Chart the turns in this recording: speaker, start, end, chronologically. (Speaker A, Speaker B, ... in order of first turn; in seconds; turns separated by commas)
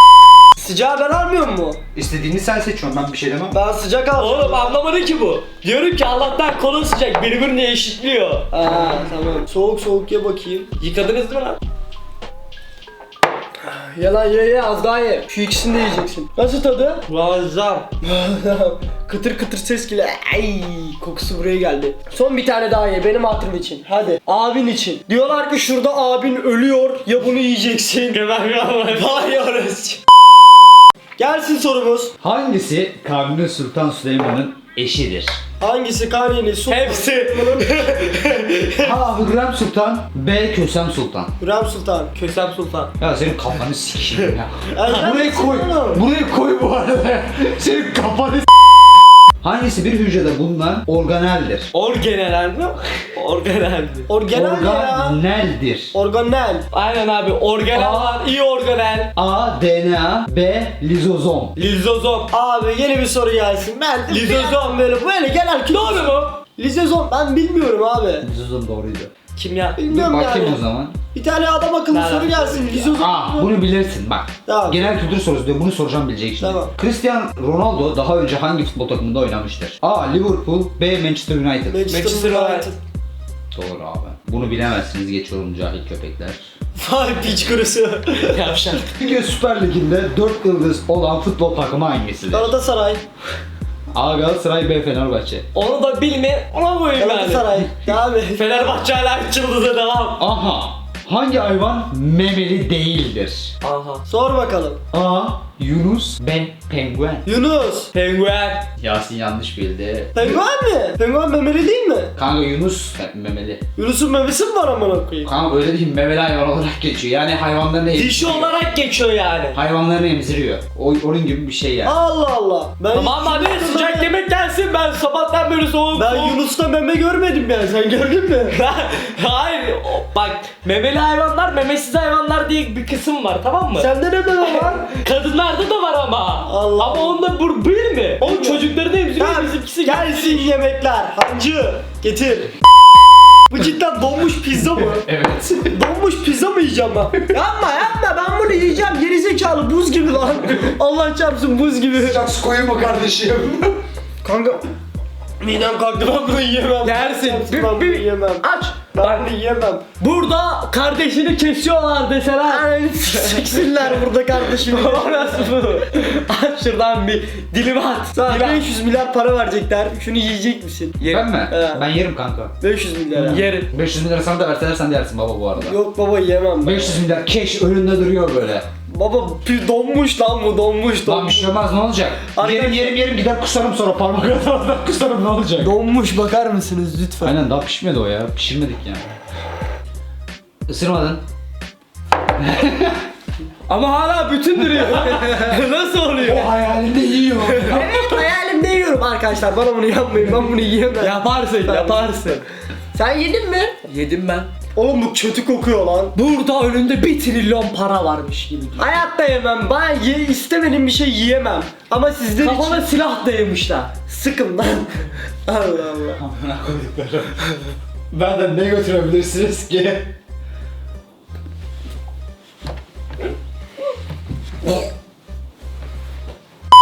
Speaker A: 0.6-1.8, Speaker B: 1.9-3.6, Speaker A: 3.5-4.8, Speaker C: 4.2-8.5, Speaker A: 8.5-10.7, Speaker C: 10.8-11.6, Speaker A: 13.6-17.0, Speaker C: 17.1-17.9, Speaker A: 18.0-28.2, Speaker C: 28.1-29.3, Speaker A: 28.9-30.0, Speaker A: 31.2-32.1, Speaker B: 32.2-35.4, Speaker A: 35.6-38.2, Speaker C: 36.7-38.9, Speaker B: 38.8-41.3, Speaker A: 41.4-42.1, Speaker C: 42.1-42.9, Speaker B: 43.0-48.5, Speaker A: 44.8-46.0, Speaker B: 49.4-51.7, Speaker C: 51.7-54.1, Speaker A: 54.1-55.2, Speaker B: 54.3-55.9, Speaker A: 55.9-56.7, Speaker C: 56.7-59.1, Speaker B: 57.7-58.2, Speaker B: 59.2-61.6, Speaker C: 61.6-62.3, Speaker A: 62.3-68.3, Speaker C: 64.1-64.8, Speaker C: 65.7-66.4, Speaker B: 68.2-69.1, Speaker C: 69.3-69.8, Speaker A: 69.8-70.6, Speaker B: 69.9-71.0, Speaker A: 71.1-73.5, Speaker C: 71.9-73.0, Speaker B: 73.0-81.8, Speaker A: 74.5-74.9, Speaker A: 76.4-76.7, Speaker A: 81.7-82.8, Speaker C: 81.9-82.7, Speaker B: 83.5-86.4, Speaker A: 86.8-88.4, Speaker C: 88.2-88.9, Speaker B: 88.9-92.5, Speaker A: 92.3-93.0, Speaker B: 93.9-95.5, Speaker C: 95.5-97.6, Speaker A: 97.0-98.6, Speaker C: 98.3-100.2, Speaker B: 100.2-103.5, Speaker C: 103.6-104.0, Speaker A: 104.1-104.8, Speaker B: 104.9-107.3, Speaker A: 107.2-107.9, Speaker C: 107.9-108.7, Speaker B: 108.8-110.4, Speaker A: 110.1-112.1, Speaker B: 112.2-113.6, Speaker A: 113.8-115.3, Speaker B: 115.2-118.6, Speaker C: 117.9-119.6, Speaker B: 119.5-122.0, Speaker A: 121.8-124.1, Speaker C: 122.9-126.4, Speaker A: 125.9-128.6, Speaker C: 128.5-140.5, Speaker A: 133.8-134.9, Speaker A: 136.4-137.2, Speaker A: 138.2-138.7, Speaker A: 139.2-142.5, Speaker A: 143.5-145.1, Speaker B: 144.6-145.8, Speaker A: 145.7-152.2, Speaker B: 151.9-153.8, Speaker A: 154.2-154.6, Speaker A: 155.4-159.8, Speaker C: 156.8-159.3, Speaker C: 160.0-164.0, Speaker A: 162.5-165.7, Speaker C: 164.5-168.7, Speaker A: 168.2-171.8, Speaker C: 171.0-171.3, Speaker B: 171.1-172.6, Speaker A: 172.6-173.5, Speaker C: 173.2-173.7, Speaker B: 173.2-175.8, Speaker A: 175.6-177.0, Speaker B: 176.6-178.7, Speaker A: 178.9-181.5, Speaker B: 181.1-185.7, Speaker A: 182.3-183.0, Speaker A: 185.6-187.3, Speaker B: 187.2-189.1, Speaker B: 190.7-191.2, Speaker B: 192.4-193.0, Speaker C: 193.7-196.5, Speaker B: 194.6-195.4, Speaker B: 196.2-198.2, Speaker C: 197.4-198.0, Speaker A: 197.7-202.1, Speaker C: 201.0-202.4, Speaker A: 202.9-203.8, Speaker C: 203.9-204.5, Speaker A: 204.7-206.2, Speaker C: 206.2-208.9, Speaker A: 208.8-212.9, Speaker C: 212.4-213.9, Speaker A: 214.1-216.2, Speaker B: 216.2-217.4, Speaker B: 218.1-220.1